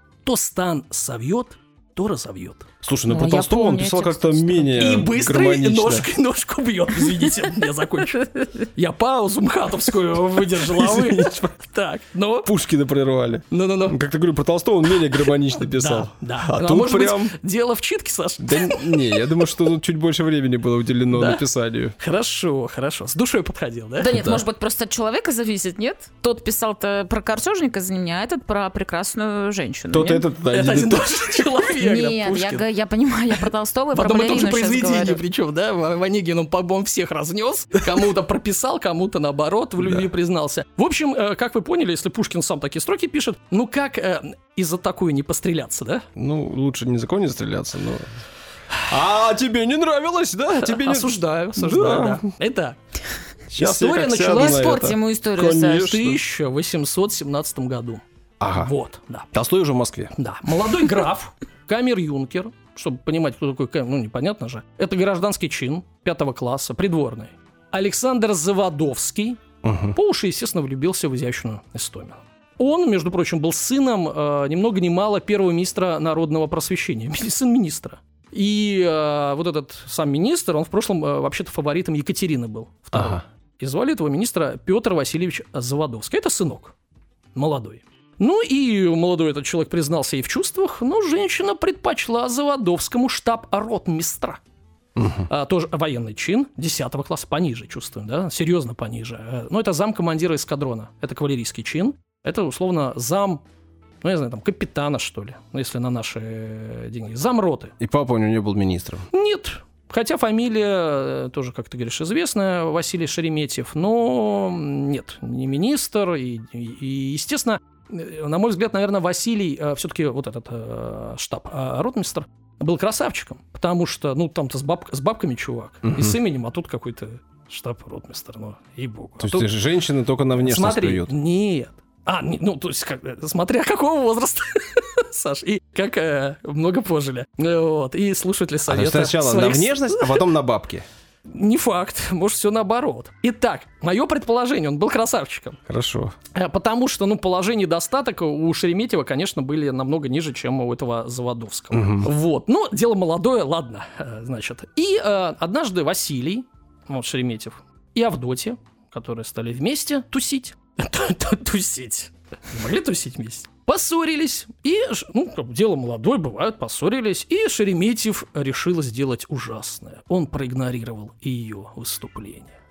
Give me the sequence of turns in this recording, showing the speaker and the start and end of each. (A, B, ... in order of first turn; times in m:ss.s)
0:00.2-0:02.7 A
0:02.8-0:06.1 B
0:03.1-0:04.9 C
0:04.7-0:12.5 A
0:10.6-0:11.5 B
0:12.4-0:17.3 B
0:13.5-0:14.0 A
0:15.6-0:19.3 A
0:18.4-0:22.0 B
0:21.1-0:21.4 A
0:22.0-0:24.2 A
0:24.0-0:30.2 C
0:24.1-0:24.4 B
0:29.9-0:31.4 B
0:30.5-0:32.6 A
0:31.6-0:35.2 C
0:33.9-0:46.0 A
0:39.8-0:40.0 B
0:46.1-0:48.0 B
0:48.8-0:52.2 B
0:50.5-0:52.8 A
0:53.5-0:56.2 B
0:53.6-0:54.8 A
0:54.2-0:55.9 C
0:55.6-0:58.0 A
0:58.4-0:58.7 B
0:58.6-0:59.3 A
0:59.3-1:00.1 B
1:00.2-1:09.4 A
1:09.6-1:10.0 B
1:09.9-1:26.7 A
1:22.9-1:23.2 B
1:27.3-1:34.4 A
1:35.0-1:35.3 B
1:35.3-1:43.4 A
1:44.0-1:47.7 A
1:47.8-1:49.1 B
1:49.1-2:09.5 A
2:05.8-2:06.2 B
2:09.2-2:11.1 B
2:10.4-2:20.3 A
2:18.7-2:20.8 B
2:21.3-2:25.6 A
2:25.7-2:26.1 B
2:26.3-2:52.5 A
2:31.7-2:32.1 B